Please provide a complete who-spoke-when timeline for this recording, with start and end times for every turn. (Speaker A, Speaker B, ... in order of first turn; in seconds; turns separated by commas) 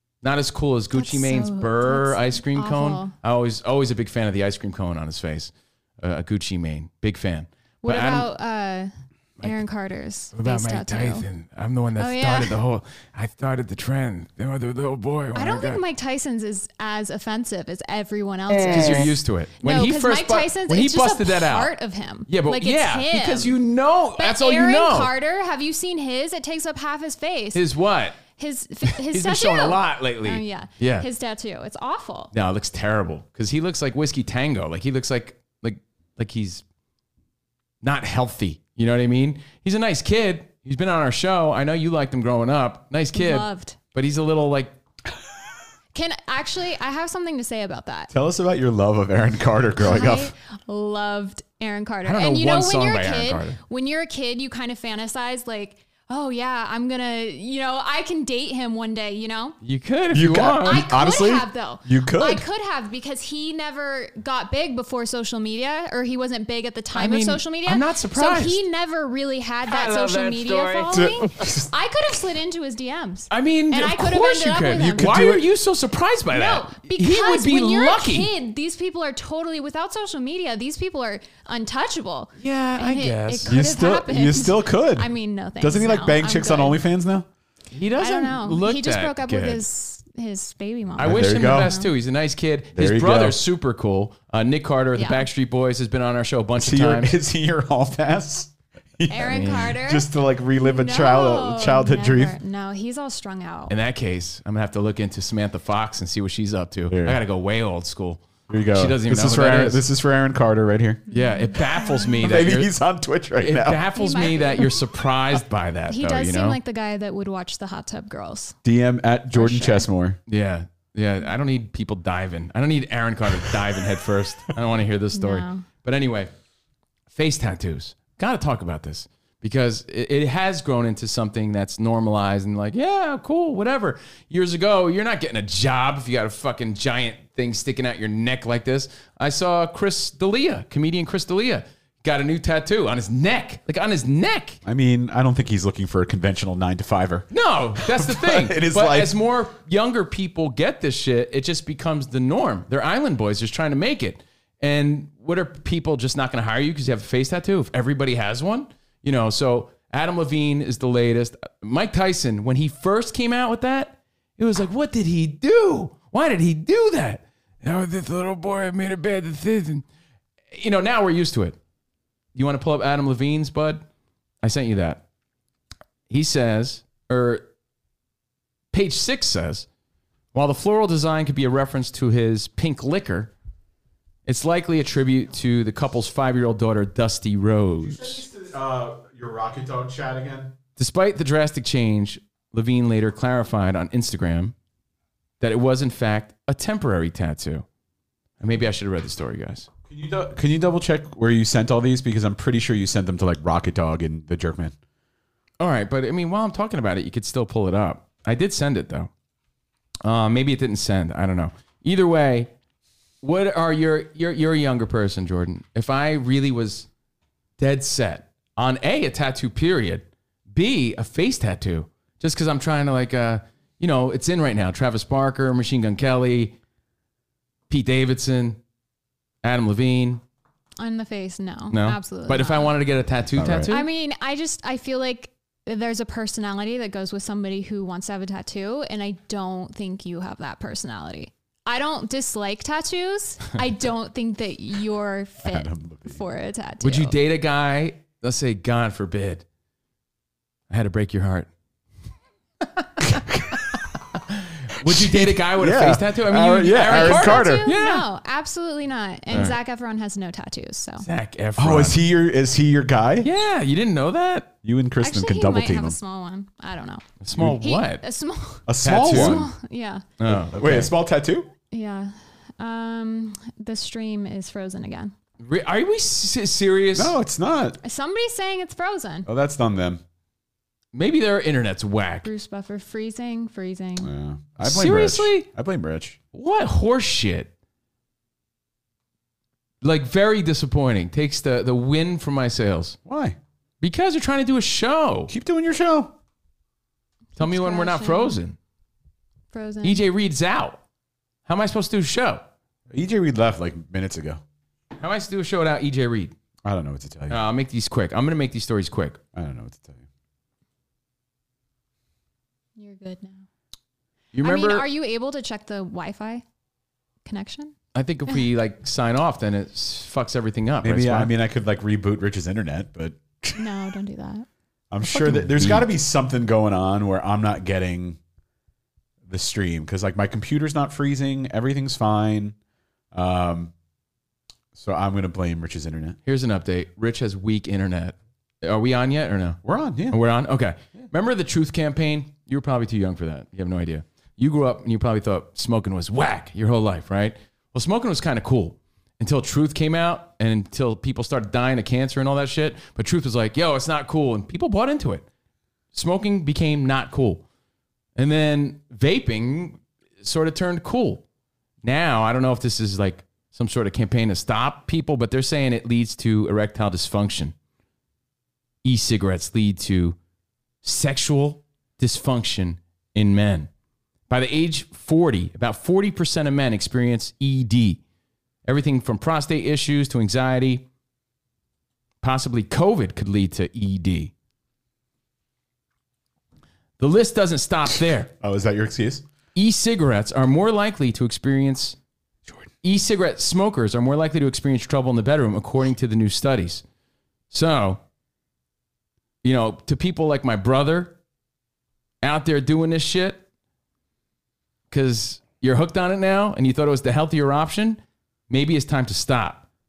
Speaker A: 0.2-8.3, Speaker B: 0.9-3.1, Speaker B: 7.8-11.3, Speaker A: 10.3-15.8, Speaker B: 12.0-12.6, Speaker B: 15.3-23.6, Speaker A: 18.6-21.7, Speaker A: 22.3-25.1, Speaker B: 24.2-27.6, Speaker A: 27.6-28.2, Speaker B: 28.2-32.3, Speaker A: 28.9-31.1, Speaker A: 32.3-36.6, Speaker A: 37.8-44.8, Speaker B: 43.1-43.8, Speaker B: 45.9-48.1, Speaker C: 48.1-50.3, Speaker B: 49.8-59.6, Speaker A: 52.0-53.6, Speaker A: 59.6-60.9, Speaker C: 60.1-62.4, Speaker B: 60.6-75.2, Speaker A: 66.9-68.6, Speaker A: 69.7-71.1, Speaker C: 70.9-71.7, Speaker A: 73.3-78.3, Speaker C: 74.8-75.5, Speaker B: 76.3-86.8, Speaker A: 82.4-83.6, Speaker C: 83.5-87.3, Speaker A: 87.7-89.6, Speaker B: 88.0-91.9, Speaker C: 91.0-91.7, Speaker A: 91.0-97.1, Speaker C: 92.8-93.4, Speaker B: 95.0-95.2, Speaker C: 96.6-102.4, Speaker B: 99.1-100.1, Speaker A: 99.3-99.7, Speaker B: 100.6-103.8, Speaker A: 103.7-109.8, Speaker C: 106.9-107.2, Speaker C: 108.5-111.0, Speaker A: 111.1-112.7, Speaker B: 111.1-112.2, Speaker C: 112.2-113.8, Speaker A: 113.4-116.6, Speaker B: 113.9-114.8, Speaker B: 115.9-118.6, Speaker C: 118.6-120.2, Speaker B: 119.3-119.9, Speaker A: 120.3-126.3, Speaker B: 125.1-125.7, Speaker A: 127.1-144.6, Speaker C: 144.6-149.1, Speaker A: 147.3-169.8, Speaker A: 170.5-171.6, Speaker A: 172.3-173.8, Speaker A: 174.4-175.0, Speaker A: 176.1-177.5, Speaker A: 178.7-179.7, Speaker A: 180.3-183.3, Speaker A: 184.3-188.2, Speaker C: 187.8-190.5, Speaker A: 190.8-194.6, Speaker A: 195.4-197.6, Speaker A: 198.4-199.7, Speaker C: 199.9-204.8, Speaker A: 205.6-209.1, Speaker A: 210.0-212.5, Speaker A: 213.2-216.9, Speaker A: 217.6-226.6, Speaker A: 227.7-228.6, Speaker A: 229.4-230.2, Speaker B: 230.8-232.7, Speaker A: 231.7-233.9, Speaker C: 233.4-233.8, Speaker B: 233.7-247.2, Speaker C: 245.4-246.2, Speaker A: 246.8-249.4, Speaker A: 250.7-251.5, Speaker A: 252.6-258.1, Speaker C: 253.0-253.6, Speaker C: 254.8-257.7, Speaker B: 256.9-261.1, Speaker A: 261.0-262.0, Speaker C: 261.6-263.3, Speaker A: 263.2-264.5, Speaker C: 264.6-266.0, Speaker B: 265.0-267.1, Speaker A: 267.2-268.0, Speaker B: 267.6-270.1, Speaker C: 268.7-269.5, Speaker A: 268.8-269.5, Speaker A: 270.2-270.9, Speaker C: 270.3-271.5, Speaker B: 271.7-275.1, Speaker A: 275.4-277.1, Speaker C: 276.9-277.8, Speaker B: 277.8-279.3, Speaker C: 279.3-280.0, Speaker A: 280.9-282.3, Speaker B: 282.2-284.1, Speaker C: 284.0-286.2, Speaker A: 284.6-285.5, Speaker A: 286.3-287.5, Speaker A: 289.8-293.0, Speaker C: 293.1-293.4, Speaker A: 293.8-295.3, Speaker C: 295.3-296.1, Speaker B: 297.4-298.4, Speaker A: 297.4-298.6, Speaker B: 299.5-300.0, Speaker A: 299.8-300.8, Speaker A: 301.5-302.4, Speaker C: 302.9-304.4, Speaker A: 305.0-306.3, Speaker C: 306.6-307.4, Speaker A: 307.3-309.2, Speaker C: 309.4-310.1, Speaker B: 312.8-313.4, Speaker A: 314.3-314.9, Speaker B: 314.4-316.4, Speaker B: 317.2-317.8, Speaker A: 317.9-321.3, Speaker C: 320.8-323.7, Speaker B: 323.6-324.5, Speaker C: 324.9-328.2, Speaker A: 325.0-325.9, Speaker C: 329.3-332.6, Speaker C: 333.1-333.7, Speaker C: 334.7-336.2, Speaker A: 336.3-355.3, Speaker C: 339.6-340.2, Speaker A: 355.9-357.4, Speaker A: 358.2-361.2, Speaker A: 361.8-367.6, Speaker A: 368.8-370.2, Speaker A: 370.8-373.7, Speaker A: 374.3-378.0, Speaker A: 378.6-380.9, Speaker A: 382.2-384.3, Speaker A: 387.0-388.3, Speaker C: 388.4-389.2, Speaker A: 389.6-392.0, Speaker A: 392.8-396.8, Speaker A: 397.5-398.0, Speaker A: 399.4-401.2, Speaker A: 402.2-403.5, Speaker A: 404.9-409.7